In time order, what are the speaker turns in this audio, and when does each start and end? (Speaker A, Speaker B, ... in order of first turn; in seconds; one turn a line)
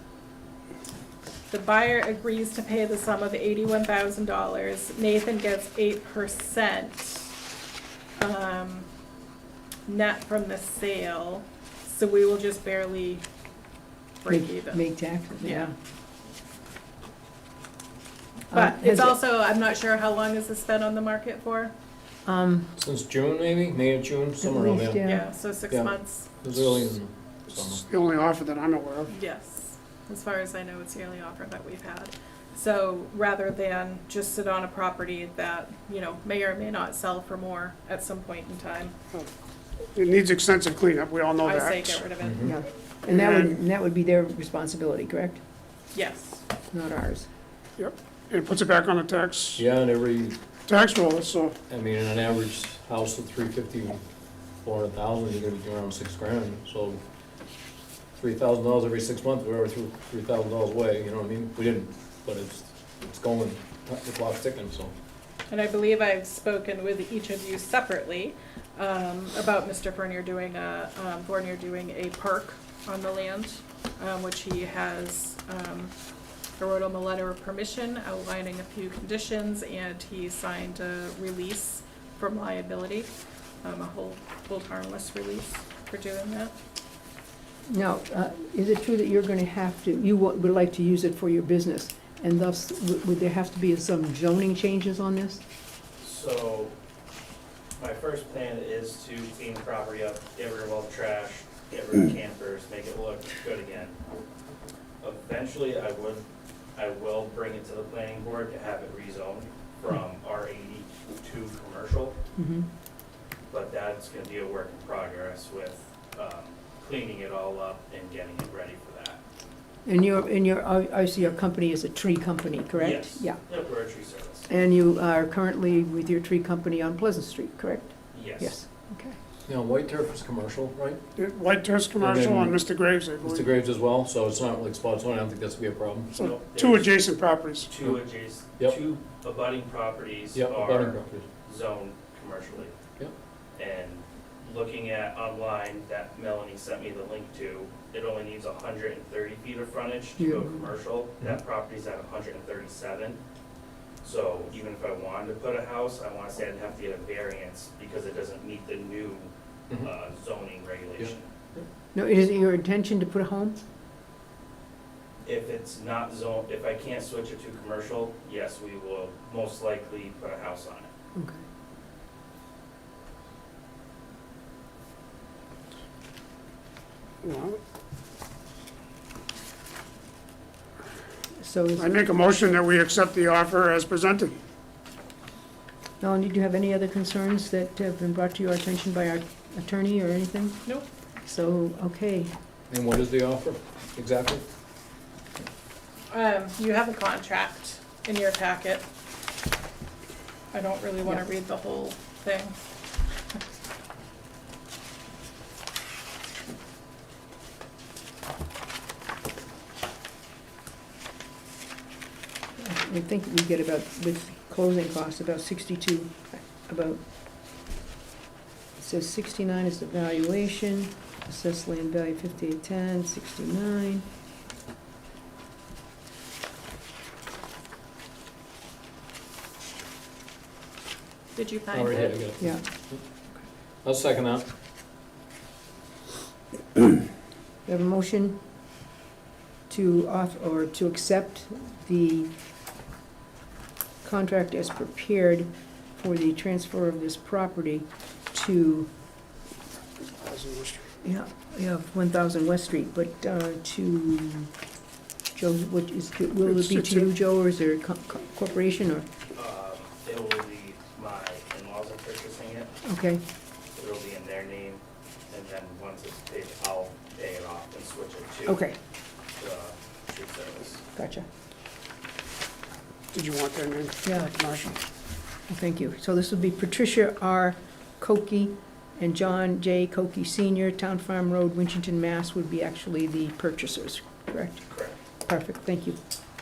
Speaker A: 1.5-7.3
Speaker A: 8.2-8.9
Speaker A: 9.9-13.2
Speaker A: 14.2-14.8
Speaker B: 14.3-15.7
Speaker A: 15.4-15.7
Speaker B: 18.5-19.2
Speaker A: 18.5-21.7
Speaker B: 22.3-22.7
Speaker C: 22.8-25.0
Speaker B: 24.4-25.3
Speaker A: 25.0-26.3
Speaker C: 25.7-27.8
Speaker D: 27.5-29.1
Speaker A: 29.1-38.9
Speaker D: 40.0-42.1
Speaker A: 41.4-42.5
Speaker C: 42.2-42.5
Speaker B: 42.4-45.4
Speaker D: 43.1-43.6
Speaker A: 45.9-46.4
Speaker B: 46.7-47.3
Speaker D: 47.8-49.6
Speaker C: 49.6-50.4
Speaker D: 50.7-51.6
Speaker C: 51.7-54.0
Speaker C: 54.6-57.0
Speaker C: 58.2-64.9
Speaker A: 65.5-75.9
Speaker A: 76.6-83.1
Speaker A: 83.6-86.5
Speaker B: 87.7-95.4
Speaker E: 96.0-96.7
Speaker E: 97.8-104.0
Speaker E: 105.0-106.2
Speaker E: 106.8-112.2
Speaker B: 112.4-112.7
Speaker E: 113.5-119.2
Speaker B: 119.9-123.4
Speaker E: 122.8-124.5
Speaker B: 124.5-129.2
Speaker E: 128.1-128.6
Speaker C: 129.5-131.0
Speaker D: 131.2-133.5
Speaker C: 132.0-132.6
Speaker C: 133.2-136.1
Speaker D: 136.1-137.7
Speaker E: 136.2-137.1
Speaker E: 137.7-142.8
Speaker C: 140.3-141.3
Speaker E: 143.6-153.2
Speaker B: 150.2-150.6
Speaker E: 154.0-161.3
Speaker C: 161.0-161.6
Speaker B: 161.9-163.6
Speaker E: 165.2-170.9
Speaker B: 171.2-171.4
Speaker D: 177.2-177.6
Speaker B: 181.4-181.9
Speaker D: 181.8-184.3
Speaker B: 186.0-190.7
Speaker B: 191.2-192.3
Speaker C: 192.7-194.4
Speaker A: 196.1-198.8
Speaker A: 200.5-202.7
Speaker B: 212.6-217.0
Speaker B: 218.8-224.1
Speaker A: 231.3-232.2
Speaker C: 231.7-233.0
Speaker C: 233.8-234.4
Speaker B: 237.7-238.4
Speaker B: 239.7-242.3
Speaker B: 244.0-248.9
Speaker D: 250.1-250.9
Speaker B: 251.0-254.5
Speaker B: 255.3-259.1
Speaker D: 256.4-257.1
Speaker E: 259.3-262.7
Speaker B: 262.8-263.2
Speaker E: 263.7-268.7
Speaker B: 268.5-268.8
Speaker E: 269.4-270.9
Speaker B: 270.9-271.3
Speaker D: 273.1-274.8
Speaker B: 274.0-274.3
Speaker B: 275.5-284.7
Speaker E: 284.7-284.9
Speaker B: 285.3-286.0